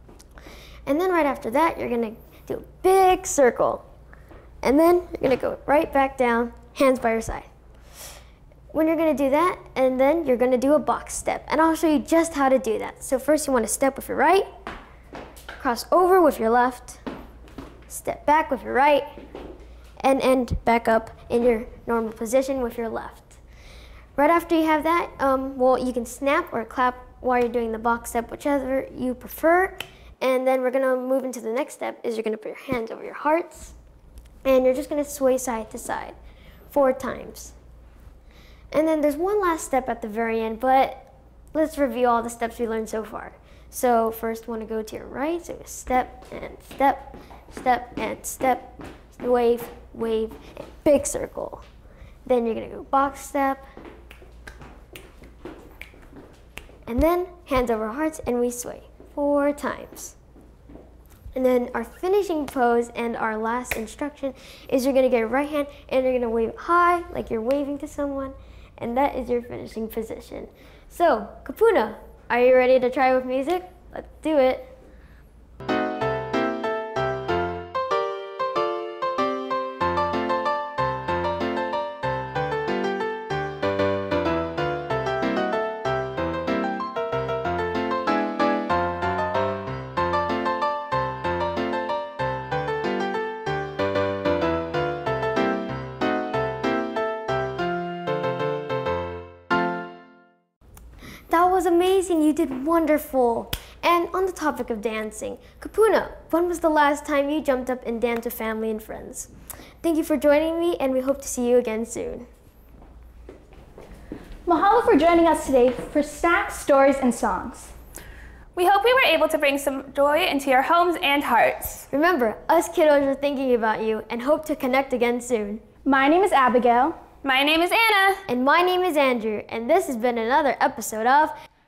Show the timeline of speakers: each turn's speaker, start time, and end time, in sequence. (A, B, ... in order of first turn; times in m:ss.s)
0:00.8-0:03.8 A
0:04.6-0:07.5 A
0:08.7-0:14.5 A
0:15.6-0:17.0 A
0:17.9-0:19.0 A
0:20.0-0:23.4 A
0:24.2-0:33.8 A
0:34.4-0:36.2 A
0:36.7-0:37.5 A
0:38.7-0:51.6 A
0:52.2-0:53.6 A
0:56.8-1:00.2 A
1:01.3-1:14.8 A
1:41.3-1:49.3 A
1:49.8-1:52.3 A
1:54.4-1:57.7 B
1:58.6-2:01.9 C
2:01.9-2:05.6 A
2:05.8-2:06.9 B
2:07.2-2:08.2 C
2:08.3-2:11.3 A